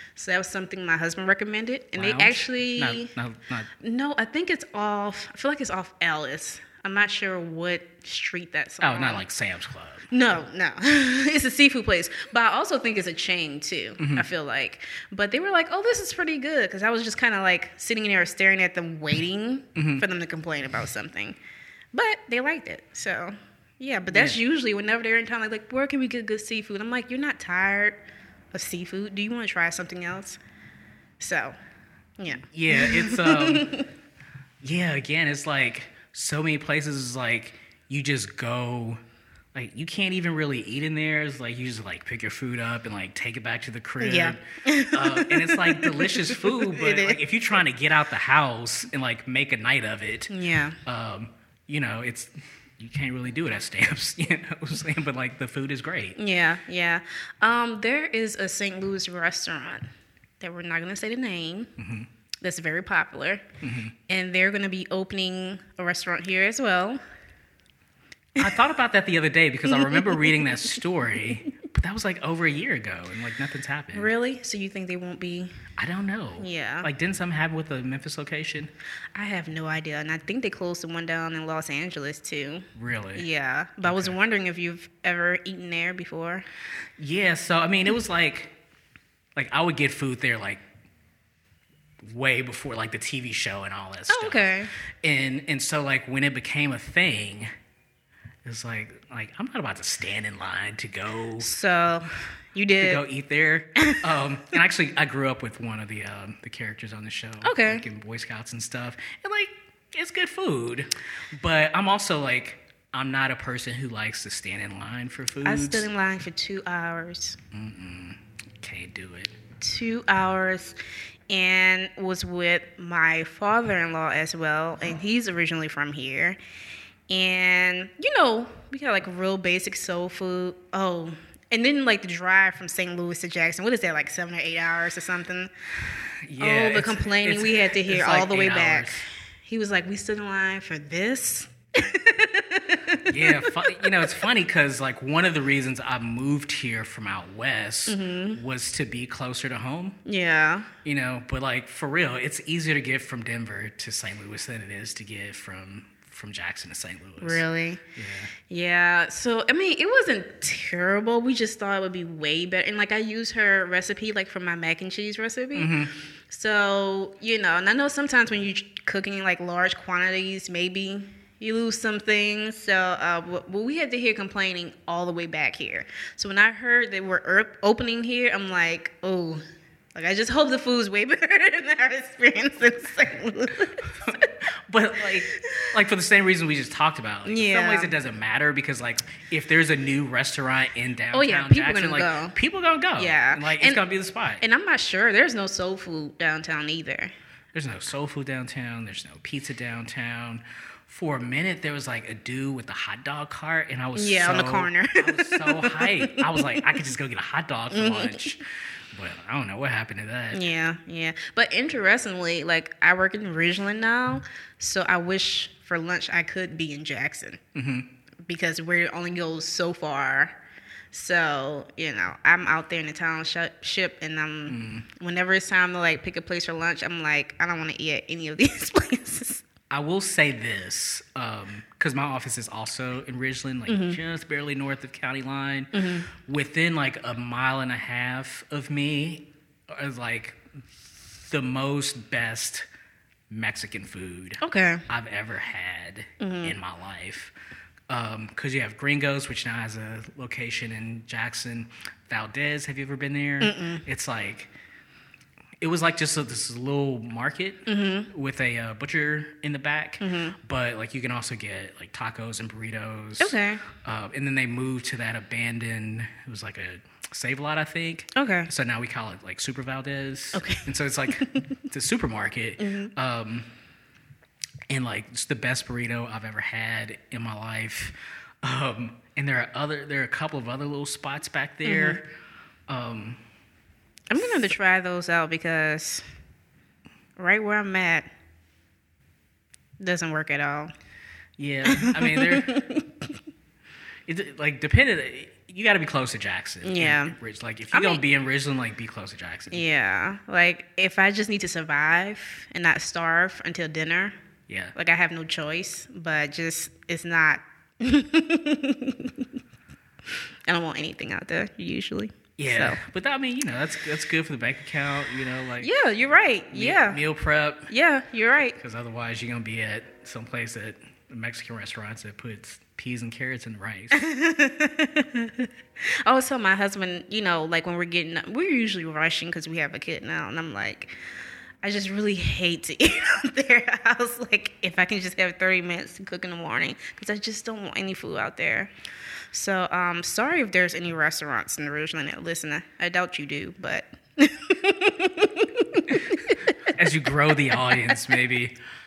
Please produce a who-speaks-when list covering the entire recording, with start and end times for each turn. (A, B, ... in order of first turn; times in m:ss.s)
0:00.2-0:03.1 A
0:02.0-0:03.7 B
0:03.8-0:09.2 A
0:08.8-0:10.1 B
0:10.1-0:21.4 A
0:14.0-0:14.3 B
0:19.8-0:20.1 B
0:21.9-0:30.4 A
0:24.1-0:24.4 B
0:31.2-0:31.6 A
0:32.2-0:33.9 A
0:32.4-0:33.7 B
0:34.6-0:39.0 B
0:39.5-0:50.3 B
0:44.0-0:47.2 A
0:50.3-0:50.8 A
0:50.8-0:56.2 B
0:56.2-0:59.9 A
1:00.4-1:01.7 A
1:01.8-1:02.1 B
1:02.4-1:03.4 A
1:03.6-1:03.9 B
1:04.1-1:07.0 A
1:08.4-1:14.1 B
1:09.8-1:10.4 A
1:13.9-1:15.5 A
1:15.8-1:18.7 B
1:16.4-1:16.9 A
1:19.2-1:26.4 A
1:22.8-1:23.3 B
1:23.8-1:24.2 B
1:27.0-1:28.6 B
1:29.4-1:30.6 B
1:32.0-1:37.5 B
1:34.1-1:34.7 A
1:38.4-1:41.5 B
1:41.4-1:43.0 A
1:42.8-1:55.9 B
1:47.4-1:47.8 A
1:55.4-1:57.4 A
1:57.5-1:59.4 B
1:59.6-2:00.8 A
2:01.3-2:06.4 A
2:07.1-2:15.5 A
2:16.3-2:19.0 B
2:16.4-2:18.9 A
2:19.4-2:23.9 A
2:23.0-2:30.0 B
2:27.9-2:28.4 A
2:30.1-2:30.7 A
2:30.8-2:37.4 B
2:37.2-2:37.8 A
2:38.0-2:38.3 B
2:38.5-2:59.4 A
2:45.5-2:45.9 B
3:00.0-3:04.3 A
3:04.1-3:14.4 B
3:05.4-3:05.7 A
3:07.3-3:07.9 A
3:11.1-3:12.4 A
3:13.0-3:13.8 A
3:14.4-3:17.1 A
3:17.5-3:30.5 B
3:24.0-3:26.8 A
3:27.7-3:28.4 A
3:30.3-3:37.4 A
3:37.5-3:37.9 B
3:38.3-3:40.4 A
3:40.9-3:49.4 A
3:44.5-3:44.9 B
3:49.7-4:00.4 B
3:53.7-3:54.0 A
3:55.7-3:56.1 A
4:01.0-4:02.7 B
4:03.3-4:07.3 B
4:04.4-4:04.9 A
4:06.2-4:06.6 A
4:07.9-4:14.5 B
4:13.4-4:13.8 A
4:15.6-4:33.5 B
4:17.7-4:18.1 A
4:20.0-4:20.4 A
4:23.2-4:23.6 A
4:28.2-4:28.5 A
4:30.3-4:31.4 A
4:32.6-4:32.9 A
4:34.7-4:42.1 B
4:41.6-4:42.0 A
4:42.7-4:43.2 B
4:44.1-4:46.0 A
4:44.2-4:44.5 B
4:47.2-4:48.1 A
4:49.8-4:50.7 A
4:51.4-4:52.7 B
4:51.7-4:52.9 A
4:54.1-4:59.7 B
4:56.6-4:57.2 A
4:57.7-4:58.0 A
4:59.5-5:04.2 A
5:04.5-5:04.7 B
5:04.8-5:09.2 A
5:10.5-5:12.8 A
5:12.4-5:15.7 B
5:15.6-5:17.0 A
5:16.5-5:17.7 B
5:17.7-5:18.6 A
5:18.6-5:24.1 B
5:23.9-5:25.5 A
5:26.0-5:30.9 A
5:31.6-5:38.7 A
5:39.3-5:46.4 A
5:46.7-5:48.6 B